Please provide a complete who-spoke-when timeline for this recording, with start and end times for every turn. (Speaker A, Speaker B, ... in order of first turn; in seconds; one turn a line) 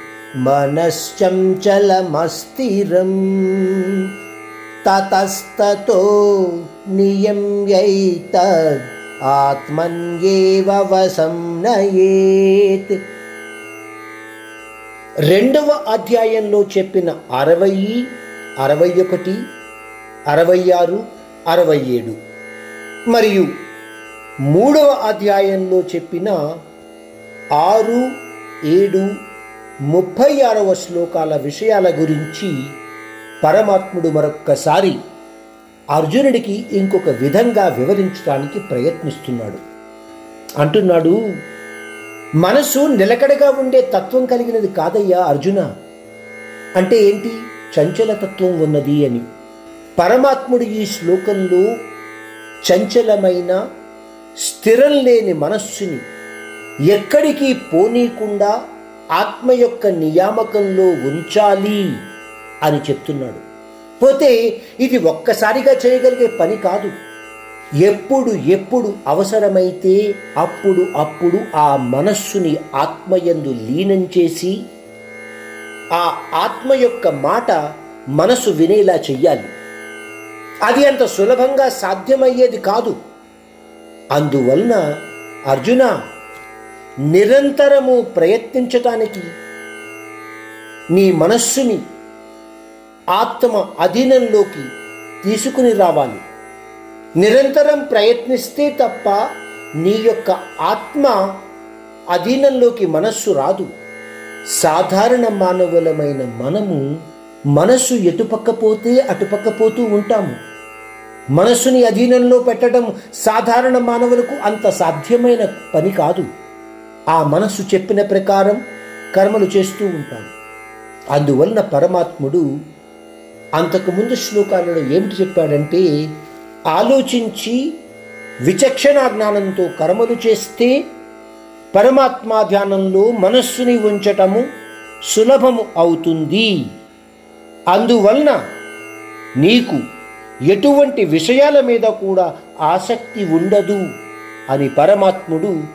Speaker A: 0.4-4.0
Speaker A: 4.8-13.0
Speaker A: 15.3-18.1
Speaker A: 18.6-19.4
Speaker A: 20.3-22.1
Speaker A: 23.1-23.5
Speaker A: 24.5-26.4
Speaker A: 27.6-28.0
Speaker A: 28.7-29.1
Speaker A: 29.9-32.5
Speaker A: 33.4-35.0
Speaker A: 35.9-39.6
Speaker A: 40.6-41.1
Speaker A: 42.4-45.6
Speaker A: 46.8-49.2
Speaker A: 50.0-51.6
Speaker A: 52.6-53.6
Speaker A: 54.5-56.0
Speaker A: 56.9-58.5
Speaker A: 59.1-61.8
Speaker A: 62.6-63.4
Speaker A: 64.0-66.9
Speaker A: 67.8-74.5
Speaker A: 75.9-77.5
Speaker A: 78.2-79.5
Speaker A: 80.7-83.0
Speaker A: 84.1-84.8
Speaker A: 85.5-85.9
Speaker A: 87.1-89.3
Speaker A: 90.9-91.8
Speaker A: 93.1-94.7
Speaker A: 95.2-96.2
Speaker A: 97.2-99.2
Speaker A: 99.8-101.2
Speaker A: 102.1-103.7
Speaker A: 104.6-106.8
Speaker A: 107.5-110.3
Speaker A: 111.3-116.2
Speaker A: 117.1-118.6
Speaker A: 119.1-120.3
Speaker A: 121.1-122.4
Speaker A: 123.6-125.9
Speaker A: 126.7-127.6
Speaker A: 128.5-130.7
Speaker A: 131.7-134.4
Speaker A: 135.1-136.5
Speaker A: 137.7-138.4
Speaker A: 139.4-139.8
Speaker A: 140.5-143.8
Speaker A: 144.5-145.5